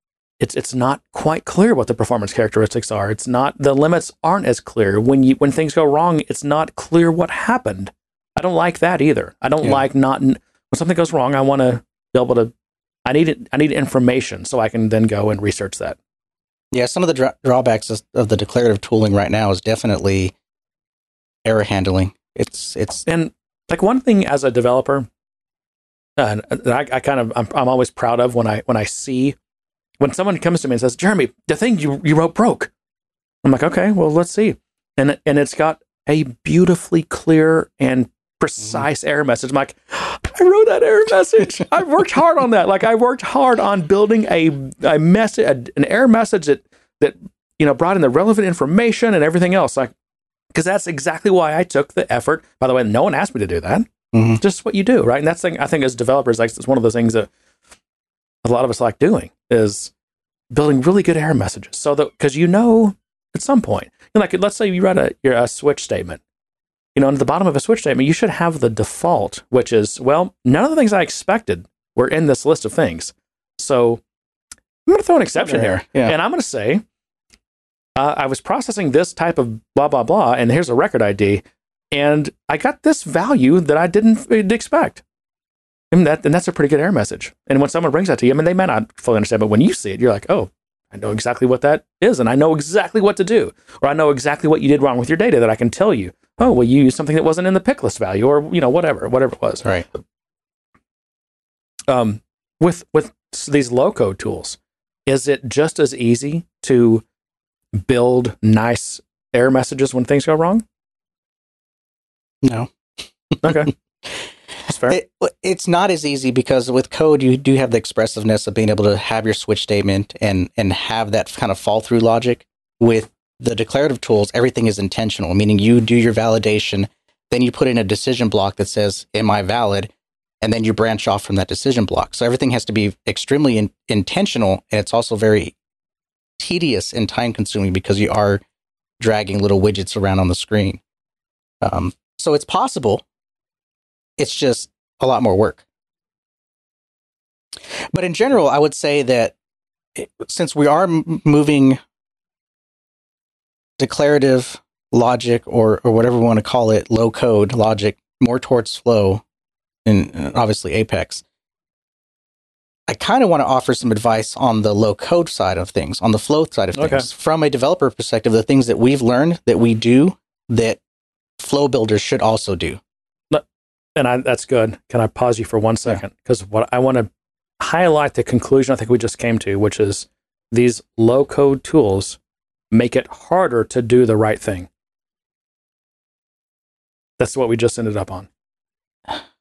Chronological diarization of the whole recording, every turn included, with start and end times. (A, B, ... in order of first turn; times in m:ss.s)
0:00.4-0:12.5 A
0:13.1-0:16.0 A
0:16.7-0:20.3 B
0:21.4-0:23.1 B
0:23.1-0:25.1 A
0:26.2-0:29.4 A
0:30.0-0:32.7 A
0:33.4-0:49.9 A
0:50.5-0:57.3 A
0:54.1-0:54.4 B
0:58.4-0:59.9 A
1:00.5-1:06.2 A
1:07.0-1:14.0 A
1:14.9-1:16.8 A
1:15.4-1:16.2 B
1:18.0-1:25.0 A
1:25.9-1:39.8 A
1:41.9-1:47.0 A
1:47.7-1:50.6 A
1:52.4-1:52.7 B
1:53.3-1:54.2 B
1:53.4-1:53.7 A
1:54.7-1:55.0 A
1:54.9-2:09.9 B
2:10.4-2:15.6 B
2:16.4-2:18.4 B
2:19.0-2:20.8 B
2:21.6-2:23.0 B
2:24.2-2:25.6 B
2:27.9-2:29.4 B
2:30.0-2:31.8 B
2:33.8-2:39.2 B
2:39.9-2:41.2 B
2:42.9-2:50.8 B
2:46.7-2:47.1 A
2:51.4-2:52.8 B
2:54.0-3:02.2 A
3:02.7-3:04.7 A
3:07.2-3:08.3 A